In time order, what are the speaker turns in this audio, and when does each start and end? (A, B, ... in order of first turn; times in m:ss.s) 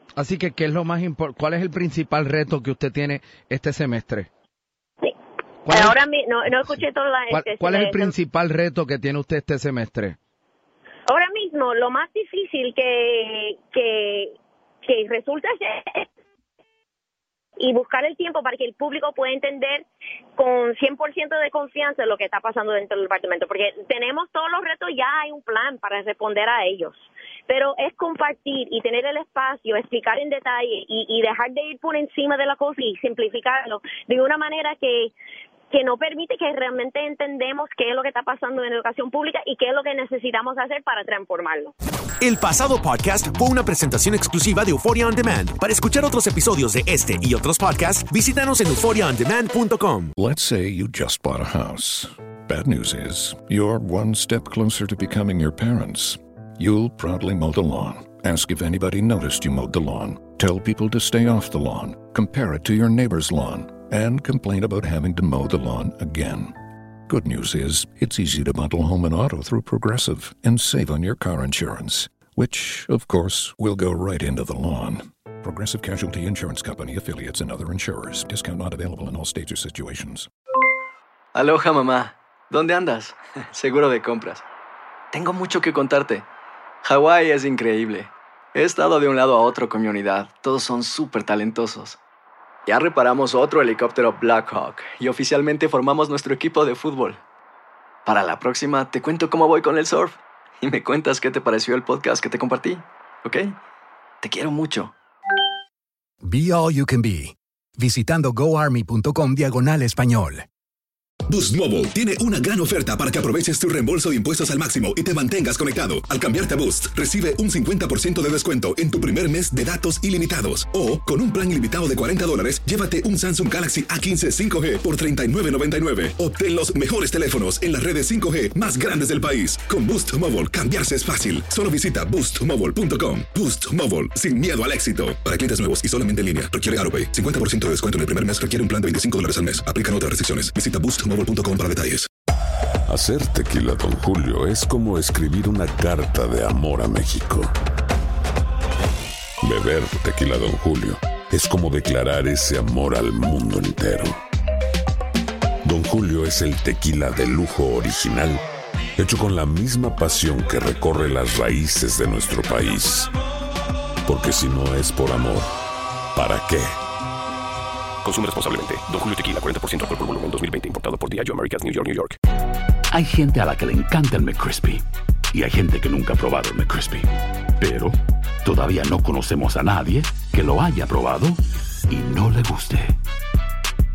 0:00.2-0:04.3 A
0:05.6-0:06.0 A
0:05.7-0:08.1 B
0:07.3-0:10.2 A
0:11.1-0:14.3 B
0:14.8-0:16.1 B
0:17.6-0:19.8 B
0:20.4-0:35.1 B
0:35.7-0:41.7 B
0:42.2-0:50.0 C
0:50.2-1:06.5 D
1:07.1-1:20.3 D
1:21.3-1:24.4 E
1:25.1-1:26.2 E
1:26.8-1:32.0 E
1:32.7-1:37.2 E
1:38.0-1:43.6 E
1:44.2-1:44.9 E
1:46.2-1:50.4 F
1:51.3-2:22.1 G
2:23.0-2:27.6 H
2:29.4-2:34.2 H
2:35.6-2:38.4 H
2:39.0-2:43.1 H
2:42.1-2:42.4 I
2:44.0-2:45.3 I
2:44.2-2:45.5 H
2:46.1-2:46.5 I
2:46.3-2:46.8 H
2:48.0-2:52.2 J
2:52.9-2:57.1 I
2:57.6-3:03.0 I